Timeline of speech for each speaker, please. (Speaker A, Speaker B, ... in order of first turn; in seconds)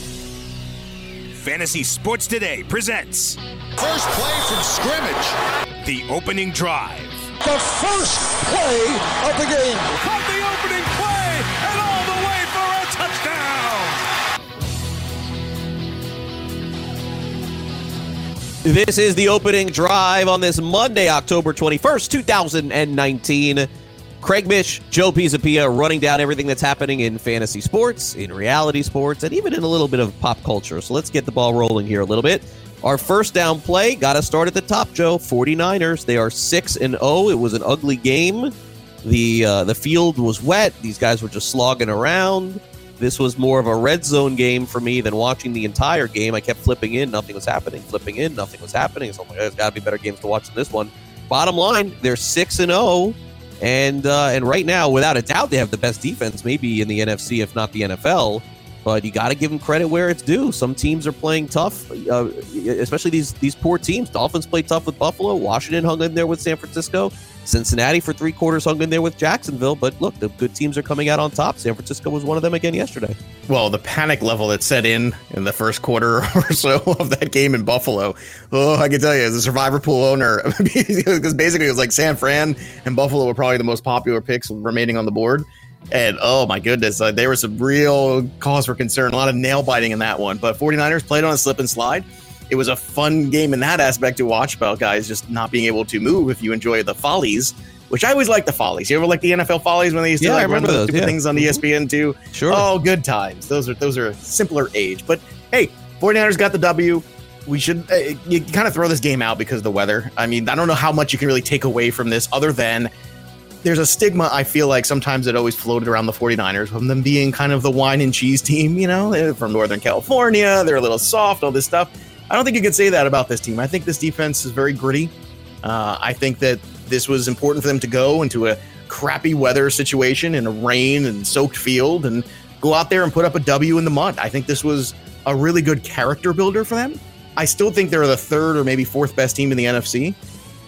Speaker A: 1.3-3.4, 5.8-7.3
Speaker B: 3.8-5.4, 7.4-10.0
Speaker C: 10.0-13.9
Speaker D: 18.6-23.7, 24.2-38.5, 39.0-73.2, 100.2-101.6, 102.3-102.7
Speaker E: 73.5-112.9, 113.6-140.2